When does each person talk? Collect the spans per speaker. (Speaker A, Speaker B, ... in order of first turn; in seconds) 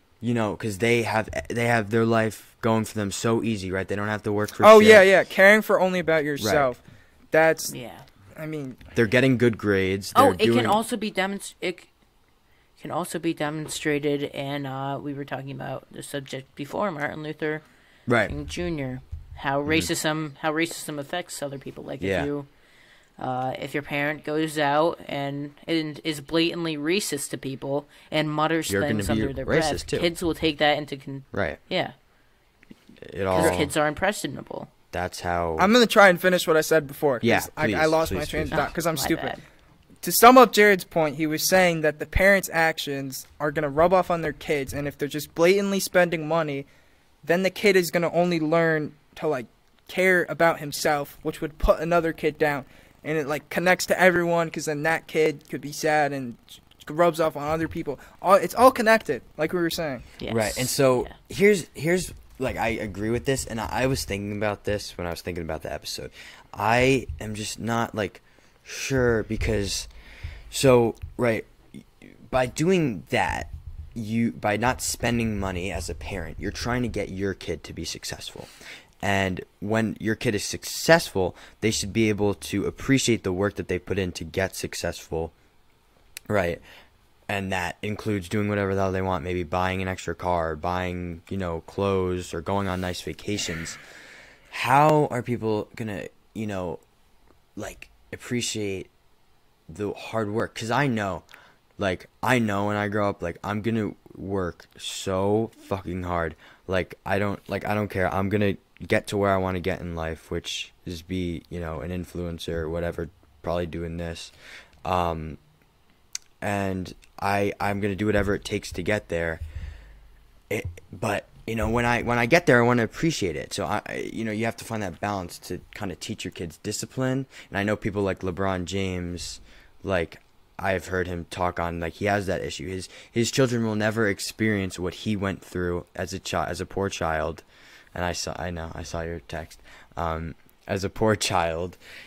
Speaker A: 0.2-5.1, 6.4-6.7, 8.9-10.8, 18.1-18.3, 22.0-22.3, 28.7-30.1, 31.3-31.6, 33.0-33.7, 34.9-35.7, 37.2-38.7, 60.3-69.9, 70.5-78.5, 79.0-85.3, 86.3-86.6, 87.3-93.8, 94.5-96.8, 97.6-98.9, 99.7-101.2, 101.8-114.3, 114.8-115.4, 116.4-119.4, 120.5-141.8
Speaker B: 4.6-7.8, 8.4-8.8, 33.4-33.6, 35.6-39.4, 40.0-46.7, 47.2-60.1
Speaker C: 7.7-8.1, 10.2-11.9, 12.8-17.6, 18.3-22.5, 23.2-31.9, 33.3-34.7, 38.5-39.4, 60.2-61.1